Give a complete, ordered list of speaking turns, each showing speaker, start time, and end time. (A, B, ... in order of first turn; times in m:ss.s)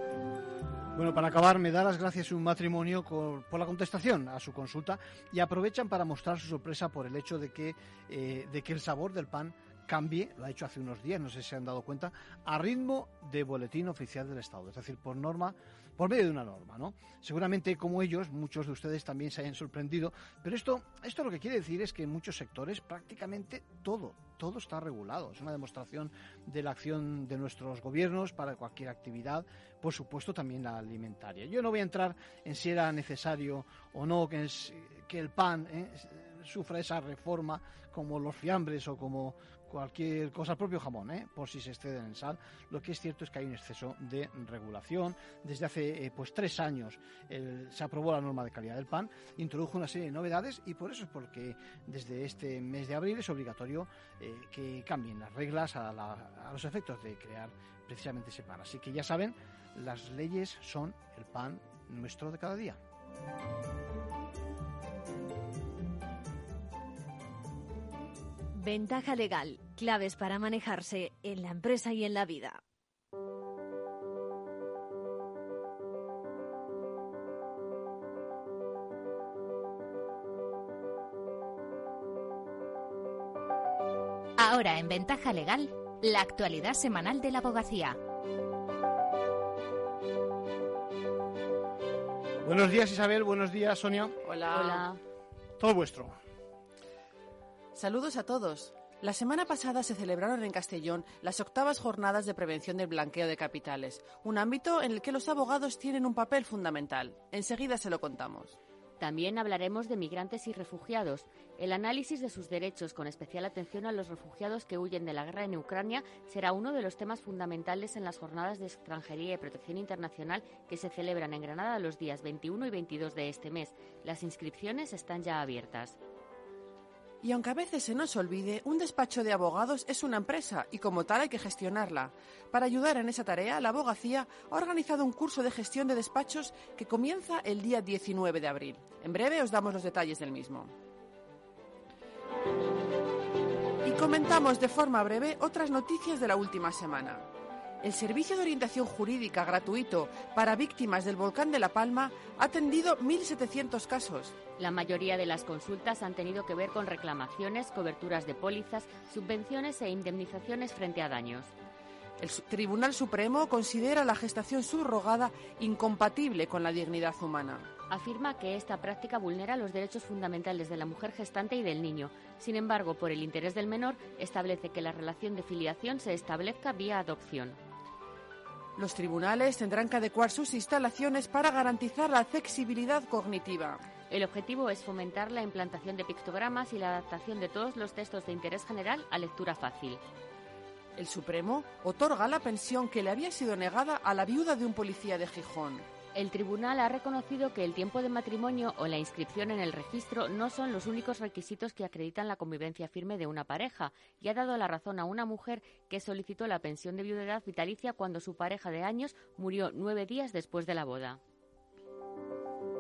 0:01.0-1:02.8 A
1:08.5-1:12.6 B
1:24.4-1:28.0 C
1:32.4-1:34.2 A
1:34.2-1:34.8 D
1:34.5-1:35.0 E
1:35.6-1:36.2 A
1:37.7-1:48.6 D
1:49.0-2:06.0 E
2:07.2-2:20.7 D
2:23.8-2:27.3 D
2:27.8-2:34.4 D
2:34.6-2:41.5 E
2:42.2-2:47.7 D
2:47.9-2:57.6 E
2:58.8-3:03.8 D
3:04.1-3:10.0 E
3:11.0-3:15.9 D
3:16.2-3:31.2 E